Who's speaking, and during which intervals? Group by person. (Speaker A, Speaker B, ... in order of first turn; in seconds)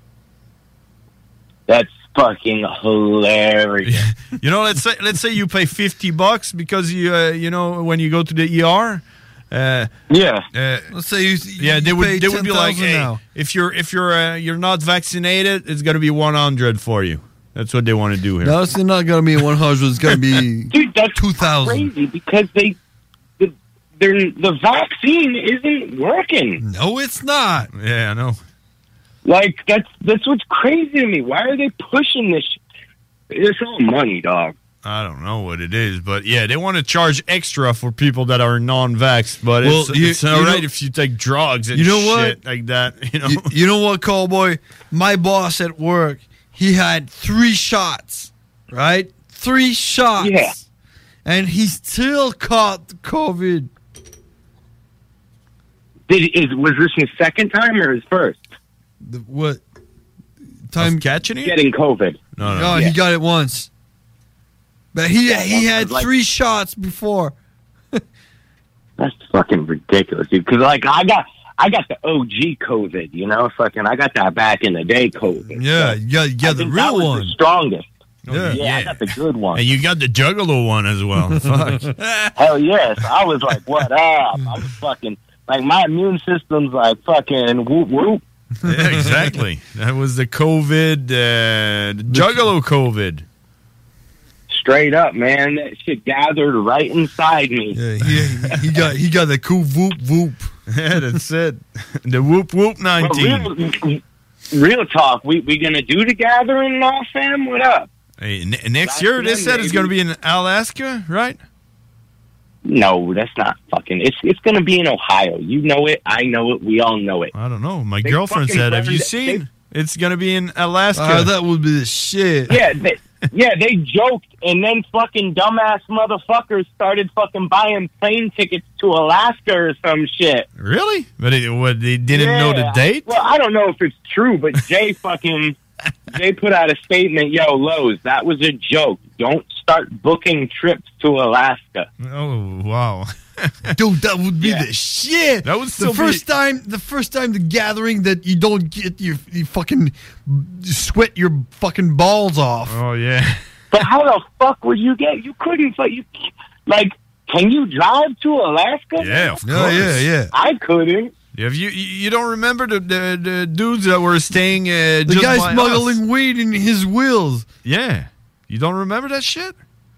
Speaker A: 1.7-4.0, 10.1-10.5, 20.7-22.8, 23.4-26.6, 29.2-32.6, 33.3-34.5, 50.2-50.5, 56.1-58.4, 61.4-62.9, 65.3-66.1, 69.0-77.9, 78.5-79.6, 82.4-88.2, 94.5-97.8, 103.0-104.0, 104.5-107.9, 108.8-109.9, 112.7-117.3, 118.0-119.4, 122.5-130.5, 132.1-135.6, 136.1-141.9, 153.7-156.1, 156.7-159.4, 160.3-161.1
Speaker B: 3.8-9.9, 10.5-10.9, 11.6-18.6, 27.7-28.4, 34.8-43.5, 60.8-61.5, 62.4-62.9, 78.2-82.3, 83.0-83.9, 88.7-93.2, 98.0-98.3, 100.7-103.5, 108.2-111.4, 117.3-121.3, 130.6-133.1, 142.0-143.7, 145.4-146.2, 152.7-153.4, 159.0-160.1, 161.3-166.0, 167.7-169.5
Speaker C: 10.9-13.2, 18.4-21.9, 26.6-27.7, 39.6-40.6, 41.7-42.4, 43.2-50.6, 51.2-53.7, 59.0-59.6, 60.7-61.0, 62.4-63.7, 64.9-67.3, 75.5-77.3, 78.3-78.6, 81.3-82.0, 88.6-89.3, 92.1-92.4, 97.7-100.5, 121.0-122.6, 143.8-152.8, 159.4-160.3, 165.1-167.5